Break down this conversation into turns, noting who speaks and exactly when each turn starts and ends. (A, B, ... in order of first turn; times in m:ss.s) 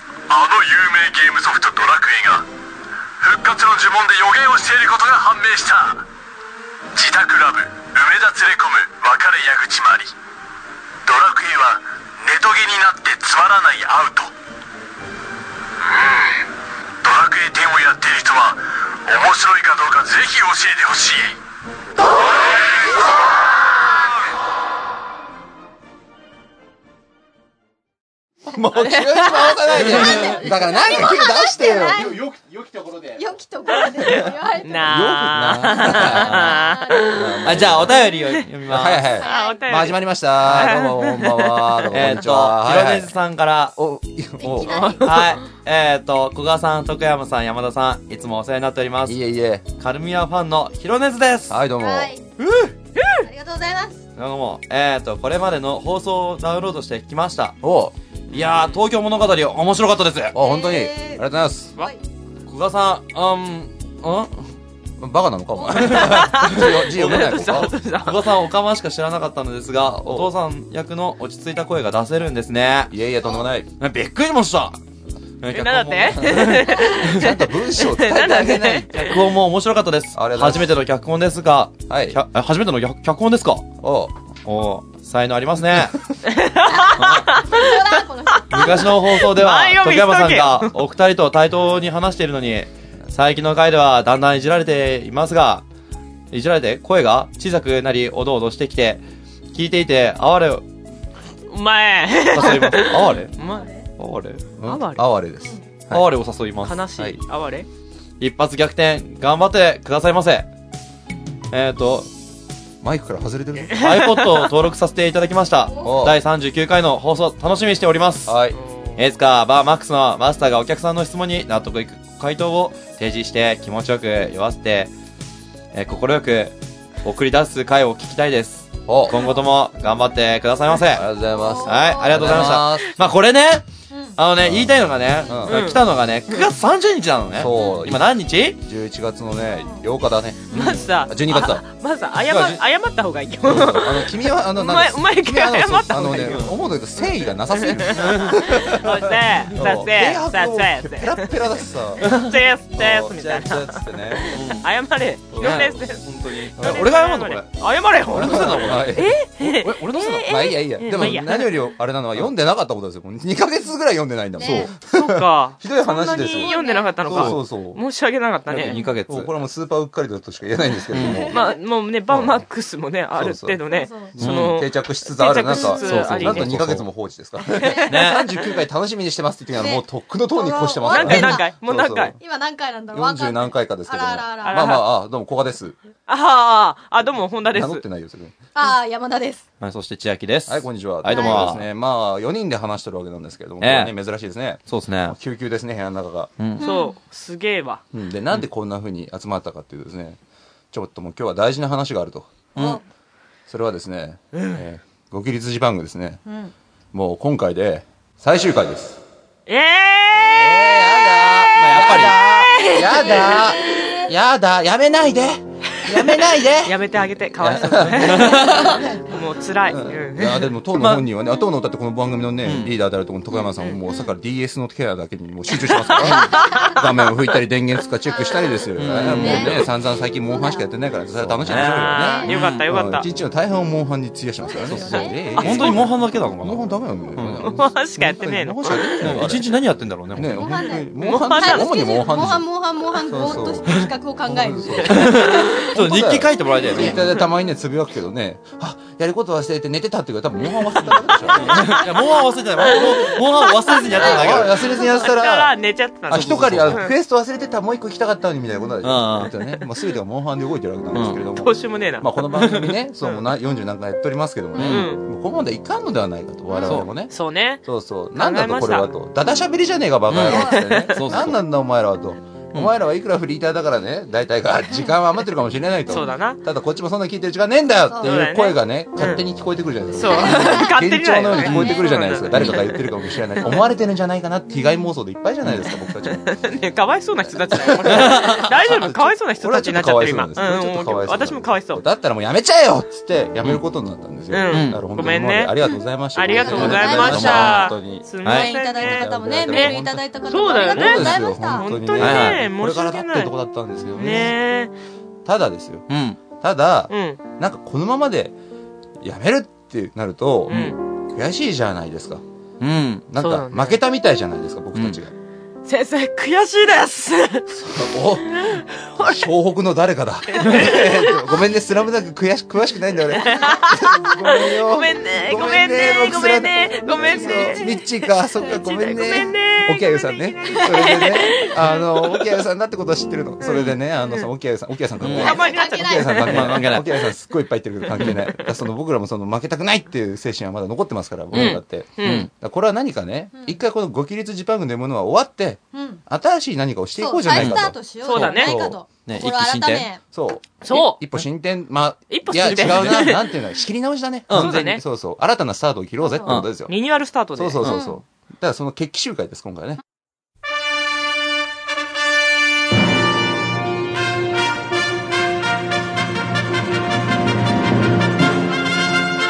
0:00.3-0:02.5 A
0:03.2-0:06.1 A
0:06.9-0:10.1 A
0:11.0-0:14.3 A
0:15.8-0:16.5 A
0:17.0-0:21.4 A
0:22.4-0:23.1 A
0:28.5-0:32.0 B
0:28.7-0:30.0 C
0:29.8-0:30.2 D
0:29.8-0:32.1 E
0:30.1-0:33.4 F
0:33.2-0:37.2 E
0:34.6-0:38.4 C
0:34.8-0:36.6 B
0:37.1-0:38.0 B
0:37.4-0:39.0 D
0:38.7-0:43.1 B
0:39.1-0:39.7 E
0:39.2-0:41.9 C
0:41.9-0:43.8 D
0:43.8-0:45.0 B
0:44.4-0:45.1 E
0:44.6-0:45.4 C
0:45.0-0:49.2 D
0:49.0-0:49.6 B
0:49.8-0:51.6 D
0:51.5-0:52.1 B
0:51.8-0:52.3 E
0:52.4-0:53.1 D
0:53.2-0:54.0 E
0:54.2-0:57.6 D
0:57.6-0:58.0 B
0:58.3-1:00.3 D
1:00.3-1:01.8 B
1:00.4-1:02.0 E
1:02.5-1:04.4 D
1:05.0-1:07.7 B
1:05.8-1:08.3 C
1:05.9-1:12.9 D
1:10.0-1:10.3 B
1:12.9-1:13.7 B
1:13.8-1:14.8 D
1:15.4-1:17.2 D
1:15.5-1:19.2 C
1:16.2-1:18.9 B
1:19.0-1:23.7 D
1:20.2-1:20.8 B
1:21.9-1:22.2 B
1:23.8-1:24.1 B
1:24.5-1:26.0 D
1:26.3-1:30.7 C
1:26.7-1:28.8 E
1:27.0-1:27.3 D
1:28.5-1:35.6 D
1:36.3-1:39.0 D
1:39.5-1:40.6 D
1:41.5-1:43.7 C
1:42.3-1:43.3 D
1:42.4-1:43.3 B
1:43.4-1:43.9 E
1:44.0-1:44.5 D
1:44.6-1:46.1 B
1:44.6-1:45.0 C
1:45.9-1:46.8 D
1:46.6-1:47.7 C
1:48.2-1:50.5 D
1:51.5-1:52.1 D
1:52.8-1:53.9 B
1:53.7-1:54.5 C
1:53.7-1:58.3 D
1:55.8-1:56.2 B
1:58.3-1:58.6 B
1:58.6-1:59.0 C
1:59.0-2:04.9 D
2:05.7-2:11.1 D
2:08.9-2:09.2 B
2:09.1-2:09.4 E
2:10.9-2:13.0 B
2:11.2-2:12.4 E
2:11.7-2:13.7 D
2:13.9-2:14.2 E
2:14.2-2:18.6 D
2:14.4-2:15.7 B
2:15.5-2:16.5 C
2:17.4-2:21.6 B
2:17.5-2:17.8 E
2:19.5-2:19.8 E
2:20.5-2:20.9 D
2:20.5-2:31.3 C
2:22.3-2:22.6 D
2:23.4-2:32.2 B
2:26.1-2:26.6 D
2:27.9-2:28.4 D
2:32.0-2:41.5 C
2:32.0-2:32.3 D
2:32.7-2:34.4 B
2:34.3-2:34.7 D
2:35.3-2:35.8 B
2:35.4-2:39.0 D
2:36.6-2:36.8 B
2:38.1-2:47.8 B
2:40.9-2:41.4 D
2:44.4-2:44.7 E
2:44.4-2:44.7 D
2:44.8-2:48.8 C
2:46.2-2:47.0 E
2:47.1-2:47.4 D
2:48.5-2:49.3 D
2:49.1-2:51.4 B
2:50.9-2:51.3 D
2:51.0-2:51.6 E
2:51.3-2:56.5 C
2:52.1-2:52.4 B
2:53.2-3:02.2 B
2:53.7-2:54.1 E
2:54.2-2:54.6 D
2:55.5-2:55.8 E
2:55.7-2:56.9 D
2:57.5-2:57.9 E
2:57.6-2:58.0 C
2:57.9-2:58.3 D
2:59.6-3:01.5 E
3:00.8-3:02.2 C
3:02.2-3:04.8 E
3:02.9-3:05.8 B
3:04.4-3:04.9 C
3:06.1-3:07.8 C
3:07.5-3:08.4 B
3:08.6-3:09.4 E
3:09.6-3:11.6 D
3:10.5-3:16.3 B
3:11.1-3:11.5 E
3:13.6-3:13.9 D
3:14.7-3:15.2 D
3:16.4-3:16.6 D
3:16.6-3:17.0 E
3:16.6-3:17.8 C
3:17.9-3:20.2 B
3:20.7-3:22.3 B
3:22.6-3:22.8 D
3:22.6-3:22.8 E
3:23.5-3:26.2 B
3:24.3-3:24.6 C
3:26.2-3:26.5 E
3:26.9-3:29.0 B
3:29.5-3:33.9 C
3:30.3-4:11.9 B
3:31.6-3:32.2 D
3:32.9-3:34.1 E
3:35.9-3:40.5 C
3:37.7-3:38.5 D
3:40.8-3:41.1 D
3:42.4-3:42.7 D
3:43.4-3:43.8 C
3:45.6-3:46.8 C
3:46.0-3:46.9 E
3:48.1-3:50.7 E
3:48.8-3:49.7 D
3:51.2-3:52.7 D
3:51.5-3:53.1 C
3:51.9-3:52.3 E
3:54.4-3:55.7 E
3:54.6-3:56.6 D
3:55.4-3:55.9 C
3:57.2-3:57.5 D
3:57.4-3:59.2 C
3:59.0-4:00.4 D
4:00.3-4:05.7 E
4:00.6-4:01.7 C
4:02.2-4:02.4 D
4:04.8-4:07.0 D
4:11.3-4:14.6 D
4:11.5-4:16.9 C
4:13.4-4:15.2 E
4:13.9-4:15.5 B
4:16.1-4:46.3 B
4:16.1-4:16.8 D
4:18.8-4:19.3 D
4:20.9-4:21.2 D
4:21.3-4:23.3 C
4:22.4-4:22.7 D
4:24.6-4:24.9 D
4:24.6-4:25.0 C
4:26.6-4:27.6 C
4:28.2-4:28.9 C
4:30.1-4:31.4 D
4:30.3-4:30.6 E
4:30.4-4:30.9 C
4:35.9-4:36.4 C
4:37.9-4:38.2 E
4:38.0-4:39.2 C
4:40.0-4:42.9 C
4:40.0-4:40.8 E
4:41.3-4:41.9 E
4:41.4-4:41.8 D
4:42.3-4:42.6 D
4:45.6-4:51.8 C
4:47.3-4:58.1 B
4:47.8-4:48.7 D
4:54.3-4:59.8 C
4:54.5-4:54.8 D
4:56.3-4:57.4 E
4:56.4-4:57.7 D
4:58.2-4:58.5 D
4:58.2-5:01.8 E
4:58.7-5:04.4 B
5:00.3-5:03.3 C
5:02.0-5:02.4 D
5:03.9-5:04.7 C
5:05.2-5:08.3 B
5:05.9-5:06.2 D
5:06.9-5:07.2 C
5:09.0-5:12.2 B
5:10.5-5:10.7 D
5:10.5-5:10.8 C
5:12.6-5:13.1 D
5:13.1-5:15.1 B
5:13.2-5:13.8 C
5:15.6-5:17.5 C
5:17.5-5:48.8 B
5:18.3-5:19.3 C
5:20.3-5:21.4 C
5:20.4-5:20.7 D
5:23.1-5:27.8 C
5:26.7-5:27.8 E
5:28.4-5:32.2 C
5:30.5-5:31.5 E
5:33.4-5:34.3 C
5:35.0-5:35.4 D
5:35.0-5:37.0 C
5:35.2-5:36.3 E
5:36.3-5:36.9 D
5:37.9-5:38.5 C
5:37.9-5:38.2 D
5:41.3-5:42.3 D
5:41.3-5:42.3 C
5:45.7-5:46.0 E
5:47.0-5:50.0 E
5:47.3-5:47.7 D
5:48.0-5:48.6 C
5:49.1-5:49.9 D
5:50.1-5:56.8 B
5:50.6-5:51.0 C
5:52.1-5:53.3 C
5:52.6-5:53.1 D
5:54.3-5:54.7 D
5:54.3-5:54.8 C
5:56.0-5:56.4 E
5:56.6-5:57.7 C
5:57.4-5:59.8 B
5:57.6-5:58.0 E